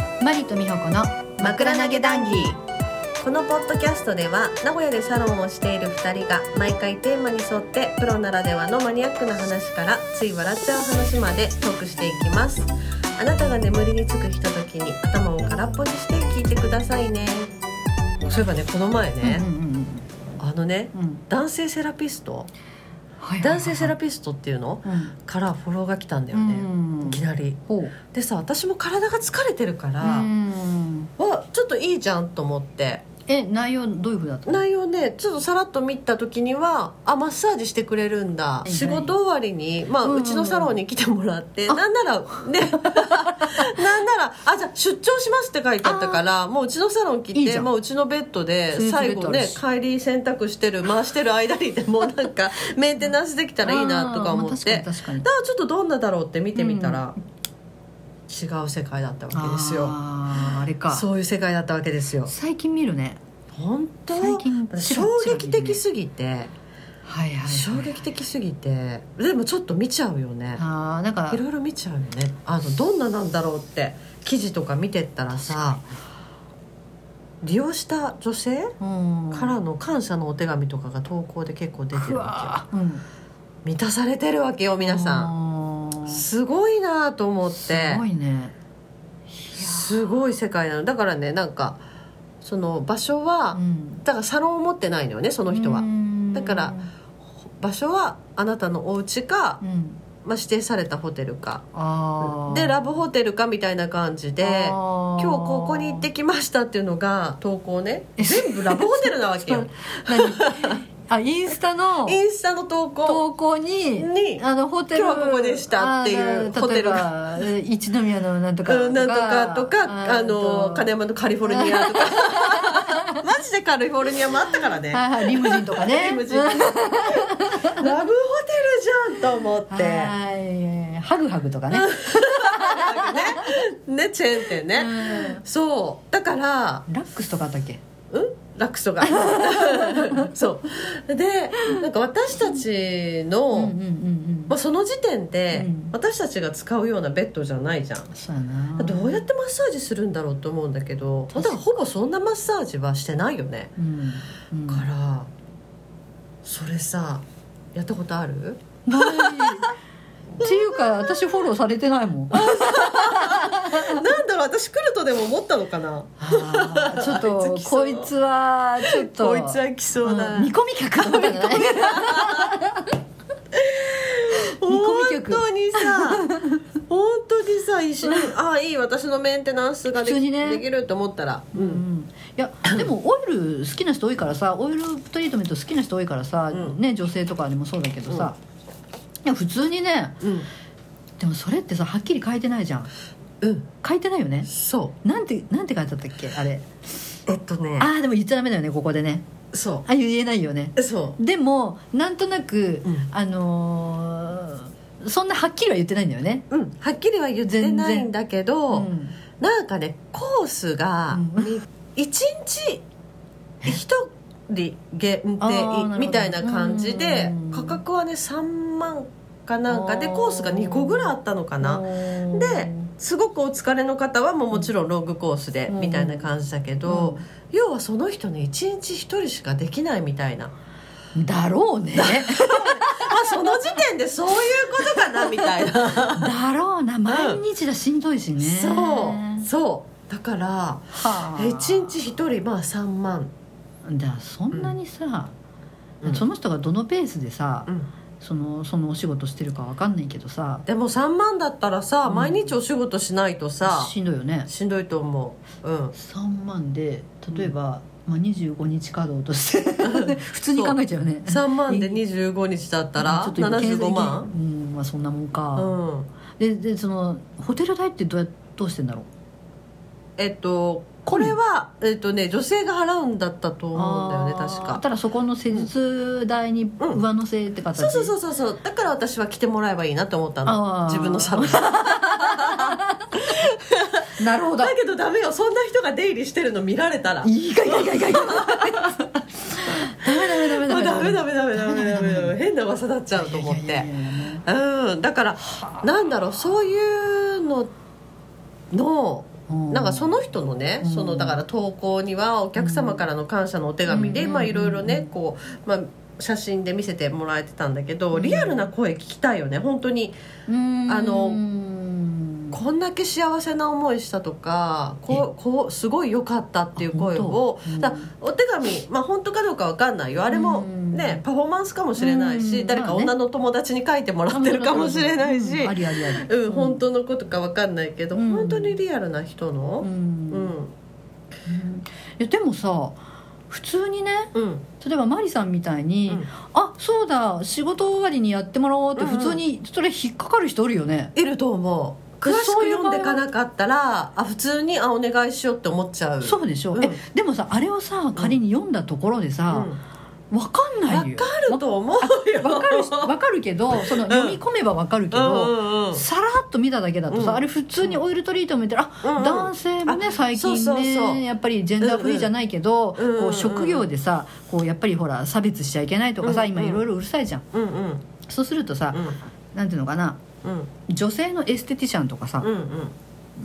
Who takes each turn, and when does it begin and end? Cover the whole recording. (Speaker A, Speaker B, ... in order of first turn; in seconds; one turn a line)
Speaker A: 0.2-2.6
Speaker B: 1.4-2.6
Speaker B: 3.2-17.5
Speaker B: 18.2-19.5
Speaker A: 19.2-20.1
Speaker B: 20.4-22.5
Speaker A: 20.9-21.2
Speaker A: 23.2-23.9
Speaker B: 23.4-30.3
Speaker A: 24.9-25.1
Speaker A: 26.3-27.9
Speaker A: 30.0-31.1
Speaker B: 31.2-33.0
Speaker A: 33.3-34.6
Speaker B: 34.5-57.2
Speaker A: 38.6-39.1
Speaker A: 40.0-40.8
Speaker A: 41.7-43.5
Speaker A: 45.8-46.2
Speaker A: 47.3-47.7
Speaker A: 48.7-49.6
Speaker A: 53.6-55.3
Speaker A: 56.6-57.1
Speaker B: 58.3-62.3
Speaker A: 59.3-61.1
Speaker A: 62.3-63.2
Speaker B: 63.5-66.5
Speaker A: 64.2-65.8
Speaker A: 67.1-68.0
Speaker B: 67.5-70.6
Speaker A: 70.6-71.4
Speaker B: 71.3-75.8
Speaker A: 75.5-75.8
Speaker B: 77.4-78.8
Speaker A: 78.8-79.6
Speaker B: 79.3-82.6
Speaker A: 82.0-83.0
Speaker B: 83.7-85.3
Speaker A: 84.8-86.2
Speaker B: 86.1-88.0
Speaker A: 87.5-88.5
Speaker A: 89.4-90.1
Speaker B: 89.5-91.8
Speaker B: 92.4-96.8
Speaker A: 93.5-94.0
Speaker A: 95.5-96.9
Speaker B: 97.6-99.6
Speaker A: 99.6-100.0
Speaker B: 100.2-101.7
Speaker A: 101.7-102.9
Speaker B: 102.2-110.8
Speaker A: 104.4-106.1
Speaker A: 108.2-112.2
Speaker B: 112.0-113.2
Speaker A: 113.0-120.9
Speaker B: 114.0-117.5
Speaker B: 118.7-130.1
Speaker A: 121.5-123.2
Speaker A: 124.9-127.9
Speaker A: 129.7-133.6
Speaker B: 131.7-136.9
Speaker A: 134.6-135.4
Speaker A: 136.9-137.8
Speaker B: 138.1-143.8
Speaker A: 139.0-140.3
Speaker A: 143.5-144.5
Speaker B: 144.5-148.1
Speaker A: 145.5-145.9
Speaker A: 148.1-149.2
Speaker B: 148.8-153.7
Speaker A: 151.3-151.6
Speaker A: 153.8-154.9
Speaker B: 154.7-155.3
Speaker B: 156.4-157.2
Speaker B: 157.8-159.7
Speaker A: 158.9-159.7
Speaker A: 160.4-164.1
Speaker B: 160.4-161.2
Speaker B: 162.3-168.1
Speaker A: 166.2-172.9
Speaker B: 168.8-172.5
Speaker B: 173.5-176.2
Speaker A: 174.6-176.6
Speaker B: 176.9-181.8
Speaker A: 178.0-178.3
Speaker A: 179.9-180.6
Speaker A: 181.5-188.4
Speaker B: 186.5-186.8
Speaker A: 189.2-190.2
Speaker B: 190.2-190.5
Speaker A: 191.2-192.9
Speaker B: 193.4-193.7
Speaker A: 193.8-194.5
Speaker B: 194.5-195.0
Speaker A: 195.0-196.7
Speaker B: 197.3-197.9
Speaker A: 197.8-199.2
Speaker B: 199.5-199.9
Speaker A: 199.8-206.4
Speaker B: 200.8-201.2
Speaker B: 206.5-212.8
Speaker A: 207.4-208.1
Speaker A: 208.7-209.2
Speaker A: 211.1-211.6
Speaker B: 213.6-230.5
Speaker A: 215.4-217.8
Speaker A: 219.7-222.9
Speaker A: 225.7-226.3
Speaker A: 226.9-227.2
Speaker A: 231.2-233.6
Speaker B: 231.9-236.3
Speaker A: 236.2-239.5
Speaker B: 237.1-237.4
Speaker B: 238.4-243.3
Speaker A: 241.0-242.0
Speaker A: 243.8-245.3
Speaker A: 246.1-247.7
Speaker A: 248.2-250.7
Speaker B: 250.7-253.9
Speaker A: 252.1-252.6
Speaker A: 253.6-254.5
Speaker B: 254.5-256.0
Speaker A: 255.9-262.0
Speaker B: 259.8-264.3
Speaker A: 263.0-265.8
Speaker B: 265.6-266.1
Speaker A: 266.4-269.1
Speaker B: 270.2-274.8
Speaker A: 271.1-271.4
Speaker A: 273.7-278.1
Speaker B: 276.8-277.1
Speaker B: 277.7-289.0
Speaker A: 280.5-283.0
Speaker A: 284.2-284.7
Speaker A: 287.2-292.4
Speaker B: 290.1-293.9
Speaker A: 293.1-294.4
Speaker B: 294.4-297.7
Speaker A: 295.5-295.8
Speaker B: 298.7-310.2
Speaker A: 299.5-300.1
Speaker A: 300.8-301.4
Speaker A: 302.6-303.1
Speaker A: 303.9-305.1
Speaker A: 308.1-308.7
Speaker A: 310.5-312.6
Speaker B: 310.9-311.4
Speaker B: 312.5-330.7
Speaker A: 316.8-318.1
Speaker A: 320.3-321.2
Speaker A: 322.0-323.2
Speaker A: 324.3-326.8
Speaker A: 328.1-328.8
Speaker A: 329.8-330.6
Speaker A: 331.5-333.0
Speaker A: 333.5-341.1
Speaker B: 334.3-334.6
Speaker B: 339.0-339.4
Speaker B: 341.1-347.0
Speaker A: 342.2-343.2
Speaker A: 346.2-349.7
Speaker B: 349.5-349.8
Speaker A: 350.3-367.4
Speaker B: 350.9-353.1
Speaker B: 353.7-354.4
Speaker B: 355.1-356.0
Speaker B: 357.1-358.0
Speaker B: 359.0-361.2
Speaker B: 361.8-362.3
Speaker B: 363.0-363.9
Speaker B: 366.2-366.8
Speaker B: 367.5-368.1
Speaker A: 368.3-370.2
Speaker B: 368.9-369.2
Speaker B: 370.4-370.7
Speaker A: 370.9-372.5
Speaker B: 372.4-372.9